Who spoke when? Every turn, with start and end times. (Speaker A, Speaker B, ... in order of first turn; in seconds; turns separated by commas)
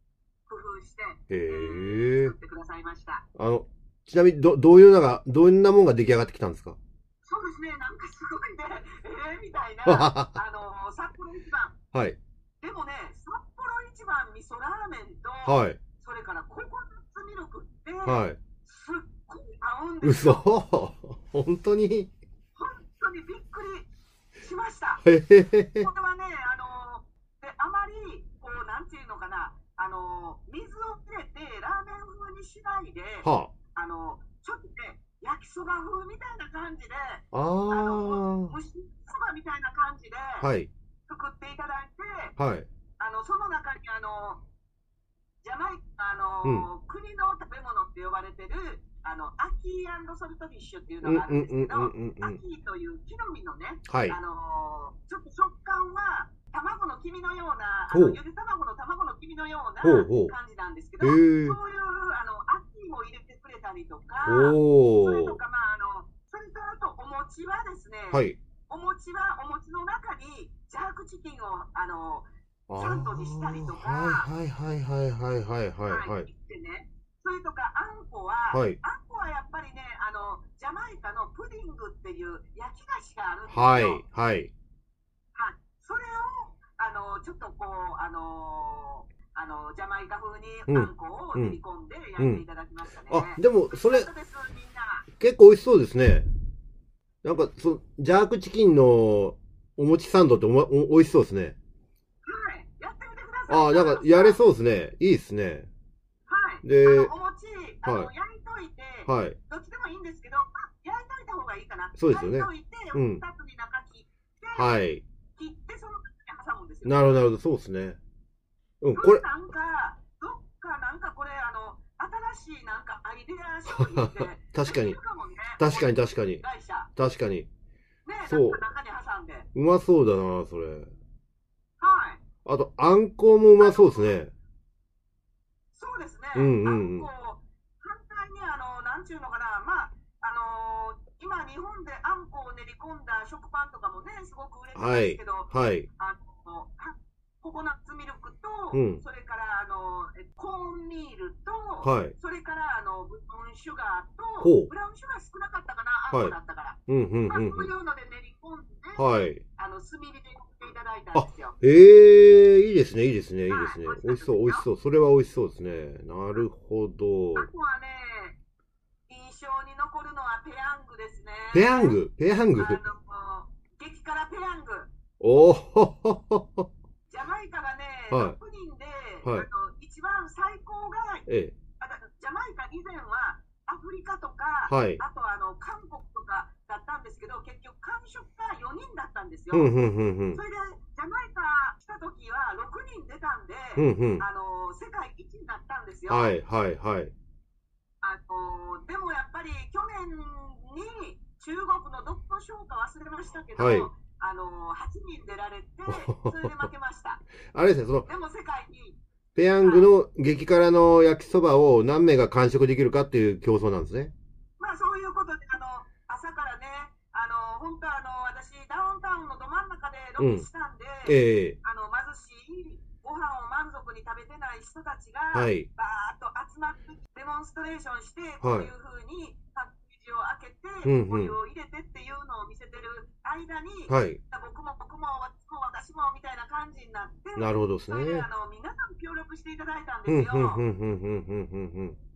Speaker A: 0.5-3.2, Speaker B: 1.3-2.4, Speaker B: 3.4-6.8, Speaker A: 7.2-11.8, Speaker B: 9.9-10.4, Speaker B: 11.9-12.2, Speaker A: 12.6-20.4, Speaker B: 15.4-15.8, Speaker B: 18.1-18.4, Speaker B: 20.0-22.1, Speaker A: 22.6-23.9, Speaker A: 24.4-25.1, Speaker B: 25.0-25.9, Speaker A: 25.8-40.5, Speaker B: 33.2-33.5, Speaker B: 37.3-38.5, Speaker B: 40.4-40.7, Speaker A: 41.1-42.4, Speaker B: 42.4-42.7, Speaker A: 43.0-44.4, Speaker A: 45.4-74.3, Speaker B: 51.0-52.4, Speaker B: 53.9-54.2, Speaker B: 57.9-58.2, Speaker B: 59.8-60.3, Speaker B: 61.0-61.6, Speaker B: 64.2-65.4, Speaker B: 68.1-68.4, Speaker B: 72.7-76.3, Speaker A: 75.9-84.0, Speaker B: 78.5-78.8, Speaker B: 83.5-84.5, Speaker A: 85.3-95.1, Speaker B: 90.7-91.6, Speaker B: 92.2-92.4, Speaker B: 93.1-94.1, Speaker B: 95.2-96.3, Speaker B: 97.2-101.6, Speaker A: 102.2-104.4, Speaker B: 103.5-105.7, Speaker A: 106.3-114.8, Speaker B: 106.6-107.1, Speaker B: 107.8-108.1, Speaker B: 109.1-109.4, Speaker B: 112.0-113.2, Speaker B: 114.5-115.0, Speaker A: 115.3-117.2, Speaker B: 116.8-118.0, Speaker B: 118.8-119.2, Speaker A: 119.0-126.9, Speaker B: 123.7-125.0, Speaker B: 125.6-126.4, Speaker B: 127.0-127.5, Speaker A: 128.1-129.5, Speaker B: 128.2-128.6, Speaker B: 129.6-130.9, Speaker A: 131.8-132.2, Speaker B: 132.5-134.3, Speaker A: 133.6-134.2, Speaker A: 135.7-159.1, Speaker B: 136.3-137.1, Speaker B: 144.8-145.9, Speaker B: 148.7-149.0, Speaker B: 151.8-152.1, Speaker B: 154.4-154.7, Speaker B: 156.9-157.7, Speaker B: 159.0-159.4, Speaker A: 159.6-161.6, Speaker B: 161.2-167.5, Speaker A: 163.5-164.7, Speaker A: 167.4-168.4, Speaker A: 169.1-172.0, Speaker B: 171.5-172.8, Speaker A: 172.6-174.9, Speaker B: 175.2-176.7, Speaker A: 177.1-181.3, Speaker B: 178.1-178.4, Speaker B: 181.3-181.6, Speaker A: 181.8-189.7, Speaker B: 184.7-185.0, Speaker B: 189.5-190.4, Speaker A: 190.3-196.3, Speaker B: 193.8-194.2, Speaker B: 196.1-197.1, Speaker A: 198.0-207.2, Speaker B: 203.6-203.9, Speaker B: 205.9-206.7, Speaker B: 207.5-208.1, Speaker A: 208.1-209.0, Speaker B: 209.3-214.1, Speaker A: 209.6-209.9, Speaker A: 214.6-240.6, Speaker B: 220.2-220.5, Speaker B: 221.1-221.6, Speaker B: 225.3-225.7, Speaker B: 228.4-228.7, Speaker B: 230.8-231.4, Speaker B: 233.9-234.2, Speaker B: 237.4-238.3, Speaker B: 240.1-242.0